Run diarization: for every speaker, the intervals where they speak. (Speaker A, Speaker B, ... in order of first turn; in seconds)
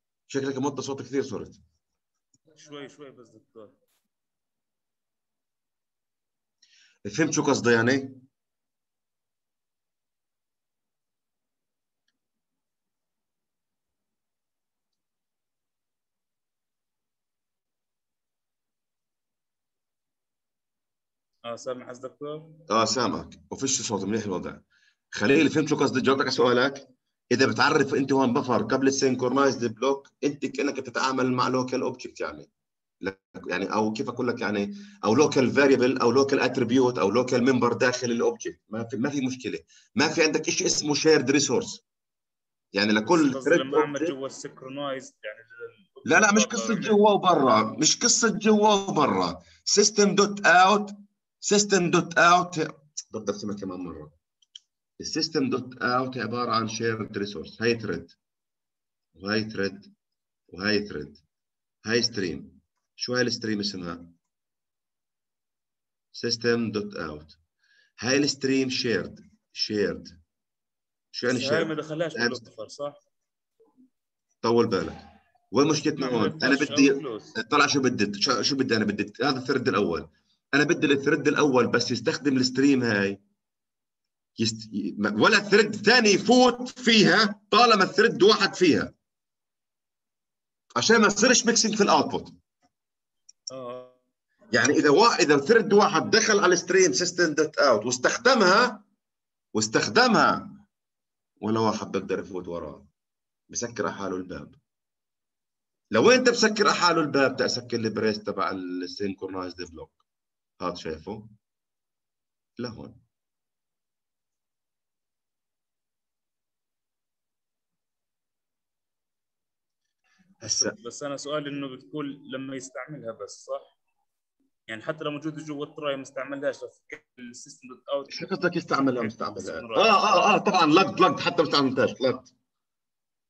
Speaker A: 0.3-1.6, 7.1-8.2, 22.7-32.5, 33.0-41.8, 42.7-44.1, 46.1-54.1, 55.0-58.1, 59.2-59.9, 60.5-61.2, 61.9-64.1, 66.1-67.4, 68.0-70.1, 71.1-72.4, 74.4-75.0, 75.5-83.2, 84.4-88.9, 90.8-92.4, 94.5-98.8, 99.5-100.6, 101.4-102.9, 103.5-104.6, 105.9-110.0, 110.6-111.3, 112.6-113.0, 120.4-120.8, 128.1-132.3
Speaker B: 2.5-3.8, 21.4-22.6, 43.1-47.0, 71.3-73.0, 76.0-77.3, 93.5-94.0, 120.5-123.7, 124.7-128.3, 129.0-130.3